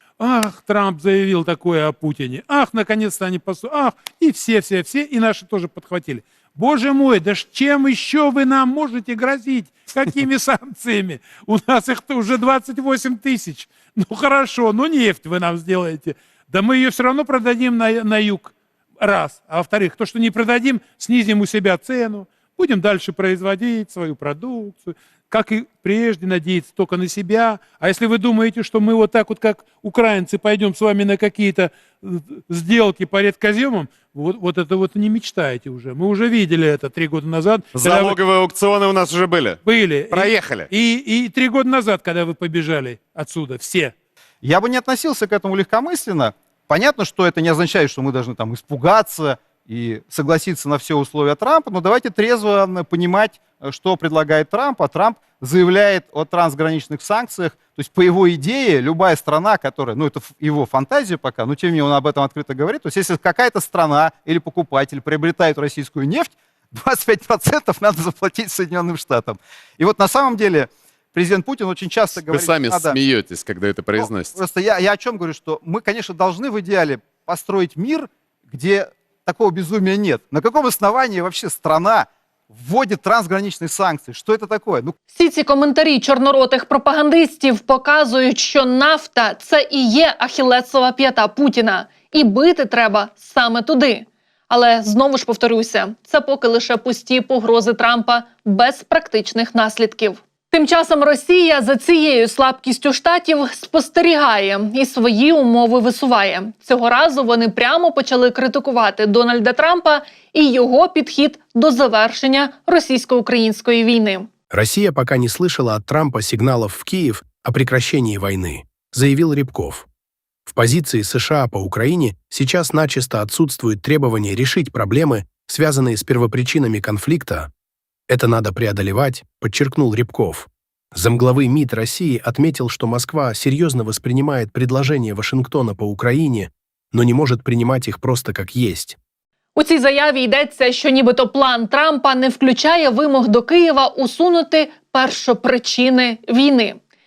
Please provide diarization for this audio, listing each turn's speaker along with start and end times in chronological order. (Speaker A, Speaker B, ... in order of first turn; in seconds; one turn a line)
Speaker A: 0.2-38.2
Speaker B: 37.8-40.7
Speaker A: 39.6-43.9
Speaker C: 44.4-73.0
Speaker B: 72.3-74.4
Speaker C: 74.0-85.0
Speaker D: 85.1-114.3
Speaker E: 114.5-119.9
Speaker E: 120.5-127.5
Speaker E: 128.1-139.0
Speaker D: 139.6-146.8